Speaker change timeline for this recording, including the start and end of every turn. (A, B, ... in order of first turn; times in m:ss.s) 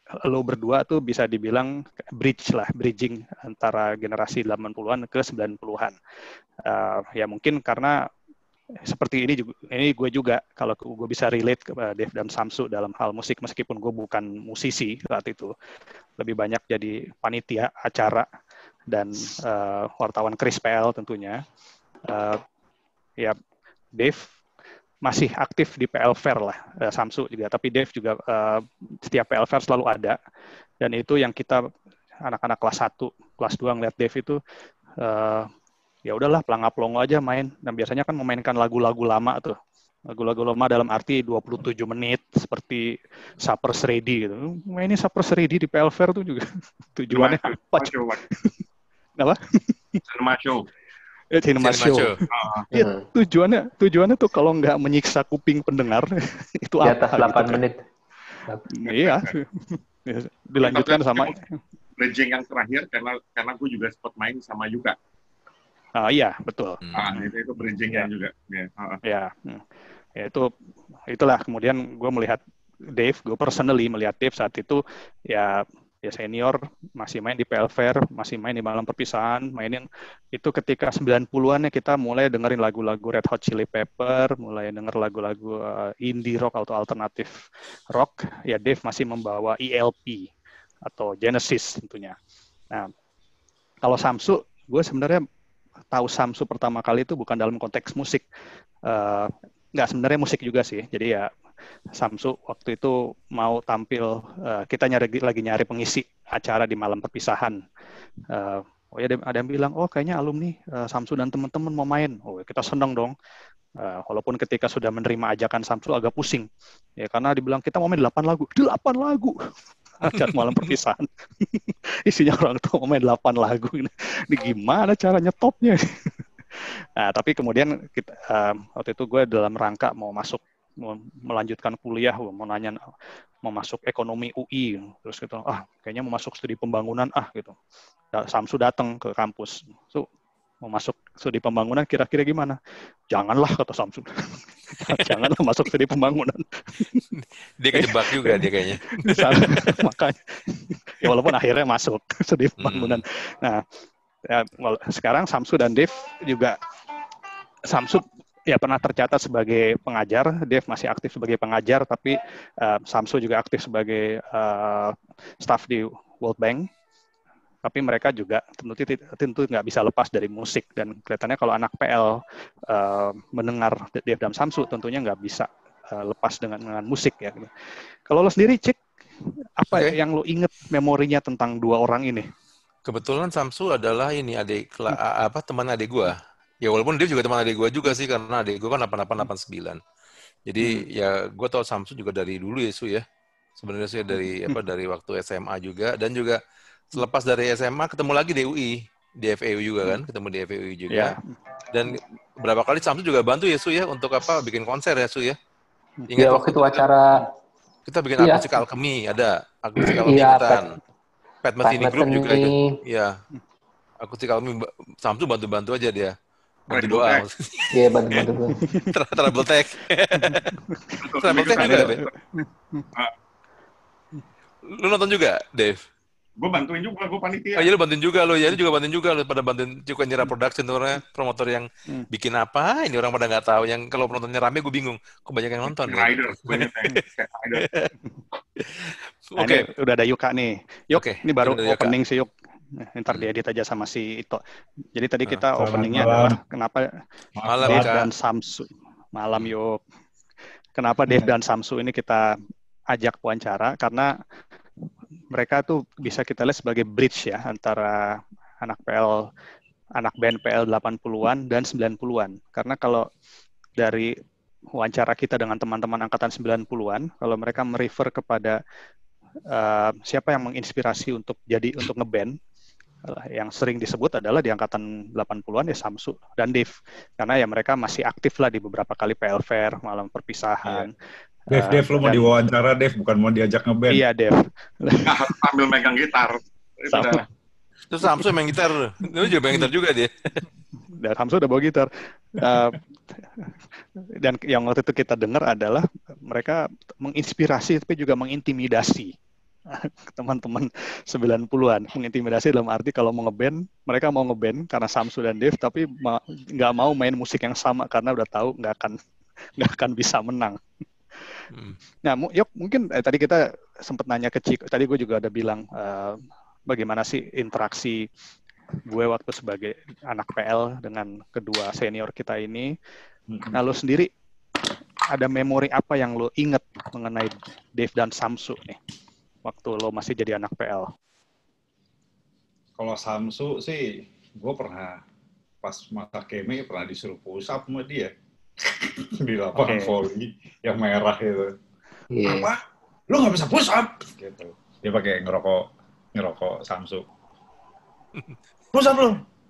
0:00.3-0:06.0 A
0:06.6-0:07.9 A
0:08.9-0:15.5 A
0:16.2-0:18.3 A
0:18.9-0:21.4 A
0:22.1-0:22.4 A
0:24.0-0:24.3 A
0:25.0-0:30.2 A
0:30.8-0:31.6 A
0:32.2-0:34.4 A
0:35.0-0:35.5 A
0:36.1-0:39.6 A
0:40.1-0:48.5 A
0:47.1-0:48.2 B
0:49.2-0:50.0 A
0:50.0-0:50.7 B
0:51.3-0:57.6 A
0:51.5-0:52.2 C
0:52.3-0:52.7 B
0:52.7-0:53.0 D
0:56.8-0:57.8 D
0:58.7-1:01.6 A
0:58.8-0:59.3 B
1:00.6-1:01.3 B
1:02.0-1:05.0 B
1:06.0-1:07.2 A
1:06.8-1:07.2 C
1:06.9-1:09.0 B
1:09.0-1:09.6 A
1:10.2-1:10.5 A
1:11.1-1:12.4 A
1:12.9-1:30.3 A
1:30.8-1:32.2 A
1:33.8-1:35.2 A
1:35.9-1:38.2 A
1:38.9-1:41.3 A
1:42.0-1:47.6 A
1:48.3-1:53.1 A
1:53.8-1:56.5 A
1:57.0-1:59.4 A
2:00.0-2:12.8 A
2:00.1-2:00.7 C
2:13.4-2:17.6 A
2:18.1-2:20.1 A
2:20.6-2:22.6 A
2:23.1-2:27.0 A
2:24.8-2:25.3 C
2:27.1-2:29.9 C
2:27.7-2:33.6 A
2:31.0-2:31.3 C
2:32.6-2:33.0 C
2:34.3-2:36.6 A
2:37.7-2:46.7 A
2:47.6-2:57.5 A
2:58.1-2:58.8 A
2:59.6-3:02.3 A
2:59.7-2:59.9 C
3:02.8-3:09.8 C
3:10.4-3:13.0 C
3:10.6-3:10.8 A
3:13.6-3:16.4 C
3:16.9-3:21.2 C
3:20.9-3:21.4 A
3:21.7-3:25.4 C
3:26.1-3:26.8 C
3:26.2-3:27.3 D
3:27.9-3:30.7 C
3:28.2-3:28.4 D
3:29.8-3:30.6 D
3:31.4-3:33.2 C
3:31.6-3:32.7 D
3:34.0-3:36.1 C
3:36.7-3:37.2 B
3:36.7-3:38.2 C
3:37.7-3:38.6 D
3:38.6-3:38.9 A
3:38.8-3:40.6 C
3:40.1-3:41.0 A
3:41.0-3:42.2 B
3:41.2-3:42.0 C
3:41.6-3:42.9 A
3:44.6-3:45.8 C
3:46.4-3:47.7 B
3:47.6-3:56.9 C
3:55.7-3:57.6 B
3:57.6-3:57.9 C
3:58.6-3:59.7 C
3:59.4-4:02.3 A
4:00.9-4:01.9 C
4:02.8-4:04.4 A
4:04.9-4:06.8 A
4:05.3-4:06.2 C
4:05.5-4:06.4 E
4:07.4-4:08.1 C
4:07.6-4:08.0 E
4:07.6-4:09.8 A
4:10.8-4:12.3 A
4:12.9-4:14.1 A
4:15.3-4:19.2 A
4:20.0-4:23.1 A
4:23.8-4:24.1 A
4:24.8-4:28.6 A
4:29.5-4:32.3 A
4:33.1-4:40.9 A
4:41.5-4:42.3 A
4:41.5-4:44.0 E
4:43.9-4:45.4 A
4:45.0-4:47.2 B
4:46.9-4:47.2 A
4:47.9-4:50.4 C
4:49.2-4:49.7 A
4:51.0-4:53.5 A
4:54.2-4:59.1 A
4:59.7-5:09.0 A
5:09.6-5:10.6 A
5:11.5-5:11.8 C
5:12.0-5:18.0 A
5:18.9-5:22.7 A
5:23.3-5:23.6 E
5:23.5-5:24.1 A
5:25.1-5:28.8 A
5:29.4-5:30.9 A
5:32.8-5:35.0 E
5:35.6-5:41.5 E
5:39.5-5:39.9 A
5:42.1-5:42.5 D
5:42.2-5:42.6 E
5:43.1-5:47.0 E
5:48.7-5:49.2 E